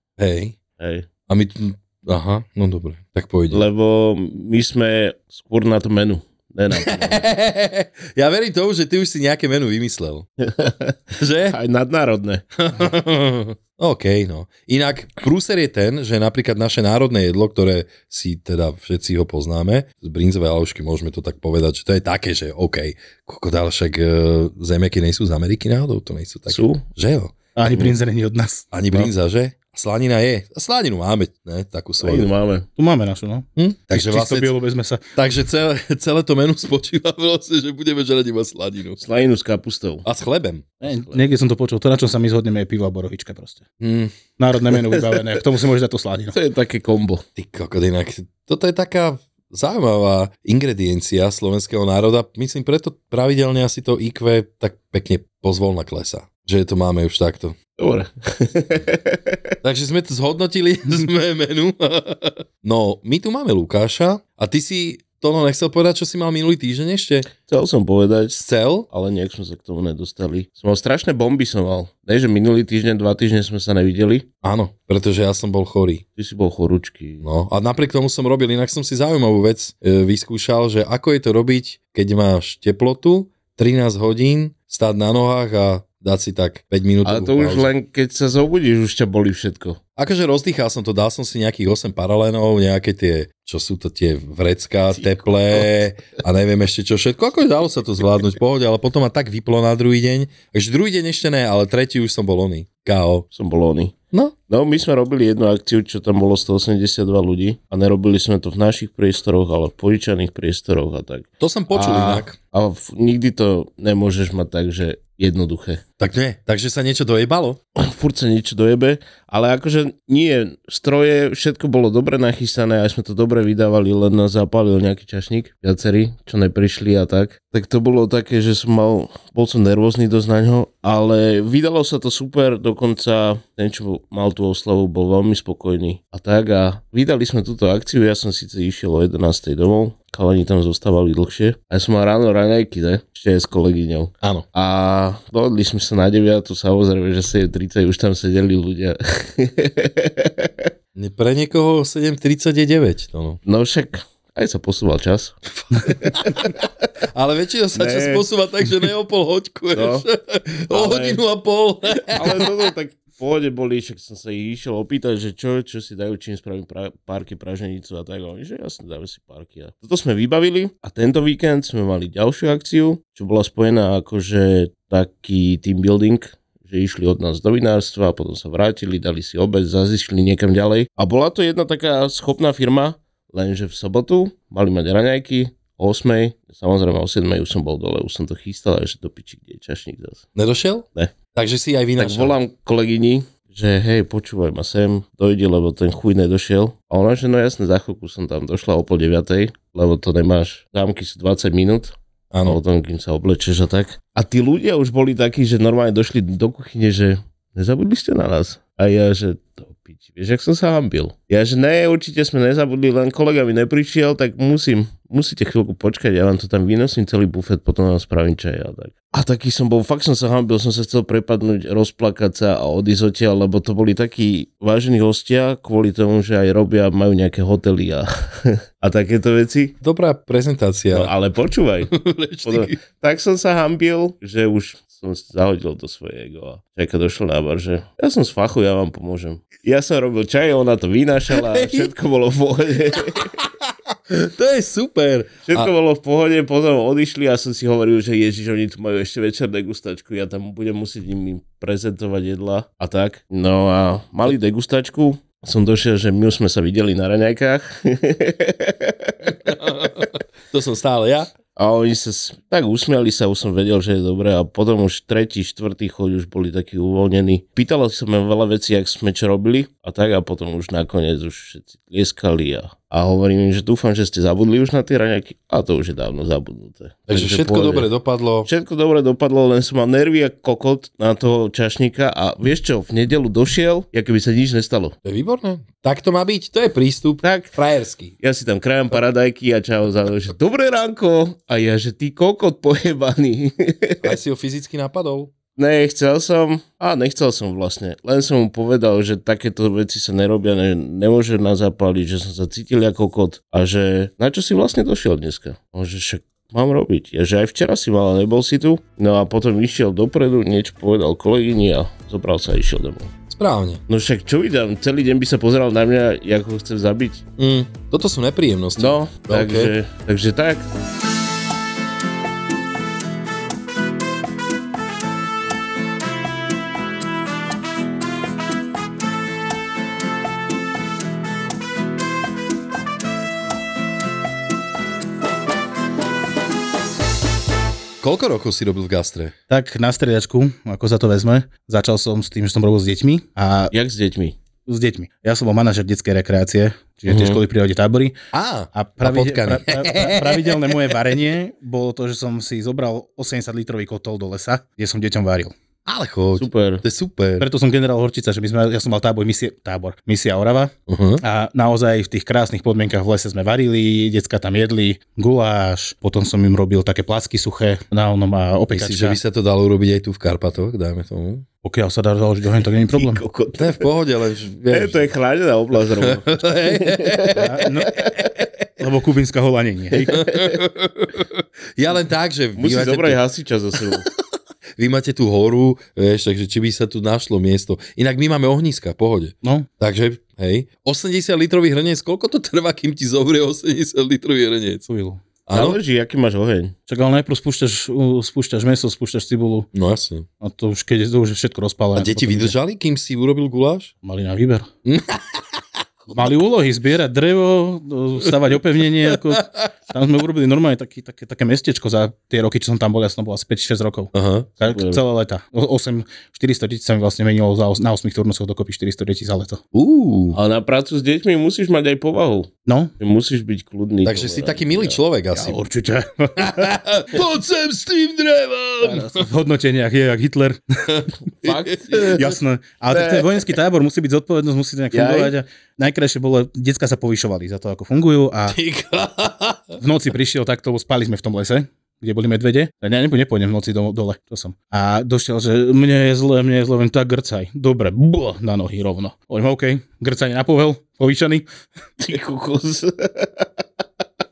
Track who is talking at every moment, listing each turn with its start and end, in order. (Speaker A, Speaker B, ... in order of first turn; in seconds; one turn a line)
Speaker A: 0.2-0.6
Speaker B: 0.8-1.1
Speaker A: 1.3-3.6
Speaker B: 3.5-7.2
Speaker A: 6.7-10.3
Speaker B: 10.4-10.9
Speaker A: 11.2-11.6
Speaker B: 11.5-12.4
Speaker A: 12.6-27.4
Speaker B: 26.5-26.8
Speaker C: 27.6-29.1
Speaker A: 28.7-32.3
Speaker B: 32.0-32.6
Speaker C: 32.8-35.0
Speaker A: 33.5-34.5
Speaker A: 35.1-39.0
Speaker B: 39.0-40.0
Speaker A: 40.0-40.7
Speaker C: 40.8-43.6
Speaker B: 40.8-41.2
Speaker A: 43.8-44.1
Speaker C: 44.4-46.4
Speaker B: 46.3-47.2
Speaker A: 47.4-57.6
Speaker B: 57.8-59.4
Speaker A: 59.6-67.3
Speaker B: 67.5-74.2
Speaker A: 68.4-68.9
Speaker A: 74.4-76.0
Speaker B: 76.2-77.2
Speaker A: 77.2-87.7
Speaker B: 87.0-89.8
Speaker A: 90.0-103.2
Speaker B: 95.0-95.7
Speaker B: 103.3-104.0
Speaker B: 104.5-115.8
Speaker A: 111.4-112.3
Speaker A: 116.0-117.6
Speaker B: 117.8-150.5
Speaker A: 150.9-153.4
Speaker B: 153.4-155.3
Speaker A: 155.8-156.5
Speaker B: 155.9-156.4
Speaker A: 157.1-162.5
Speaker B: 157.7-158.2
Speaker B: 159.7-160.1
Speaker B: 160.7-161.2
Speaker B: 162.0-190.2
Speaker A: 190.3-192.3
Speaker B: 192.0-229.7
Speaker A: 202.3-202.6
Speaker A: 229.8-231.1
Speaker B: 230.9-231.9
Speaker A: 231.9-232.8
Speaker B: 232.4-243.3
Speaker A: 241.4-241.9
Speaker A: 243.1-245.7
Speaker B: 245.4-259.1
Speaker A: 259.2-261.3
Speaker B: 261.6-277.9
Speaker A: 277.1-278.5
Speaker B: 278.4-284.9
Speaker A: 285.0-288.1
Speaker B: 287.2-287.5
Speaker B: 288.2-294.1
Speaker A: 294.0-295.3
Speaker B: 295.6-313.1
Speaker A: 313.3-313.8
Speaker B: 313.9-317.2
Speaker A: 317.4-319.7
Speaker B: 318.8-320.6
Speaker A: 338.0-339.3
Speaker C: 339.5-343.7
Speaker B: 343.7-344.3
Speaker C: 344.7-348.1
Speaker B: 347.1-347.4
Speaker A: 348.3-350.9
Speaker C: 348.7-355.5
Speaker A: 355.9-357.5
Speaker B: 356.4-356.8
Speaker C: 357.4-369.2
Speaker A: 360.9-361.2
Speaker A: 368.7-371.4
Speaker C: 371.6-373.2
Speaker B: 372.9-373.9
Speaker A: 373.6-375.1
Speaker B: 374.7-377.4
Speaker A: 376.0-377.5
Speaker C: 377.4-378.0
Speaker A: 378.1-378.4
Speaker C: 378.8-380.2
Speaker A: 380.1-383.2
Speaker B: 380.1-380.6
Speaker B: 382.6-384.1
Speaker A: 384.8-394.9
Speaker C: 389.4-389.7
Speaker C: 394.9-395.2
Speaker A: 395.5-395.8
Speaker B: 395.5-396.7
Speaker C: 396.9-399.7
Speaker A: 399.7-400.3
Speaker C: 400.4-402.5
Speaker A: 401.9-403.9
Speaker C: 404.0-404.7
Speaker A: 404.8-405.6
Speaker C: 406.1-419.6
Speaker A: 409.1-409.7
Speaker A: 414.1-414.5
Speaker B: 414.6-415.0
Speaker A: 419.7-420.4
Speaker B: 420.3-425.0
Speaker C: 422.6-422.9
Speaker A: 424.0-425.6
Speaker C: 425.3-426.8
Speaker A: 426.4-429.3
Speaker C: 428.8-430.6
Speaker A: 430.9-432.3
Speaker B: 431.4-432.3
Speaker C: 432.1-438.6
Speaker B: 432.9-433.4
Speaker B: 434.9-435.3
Speaker A: 438.5-439.8
Speaker C: 439.8-451.5
Speaker B: 452.0-453.4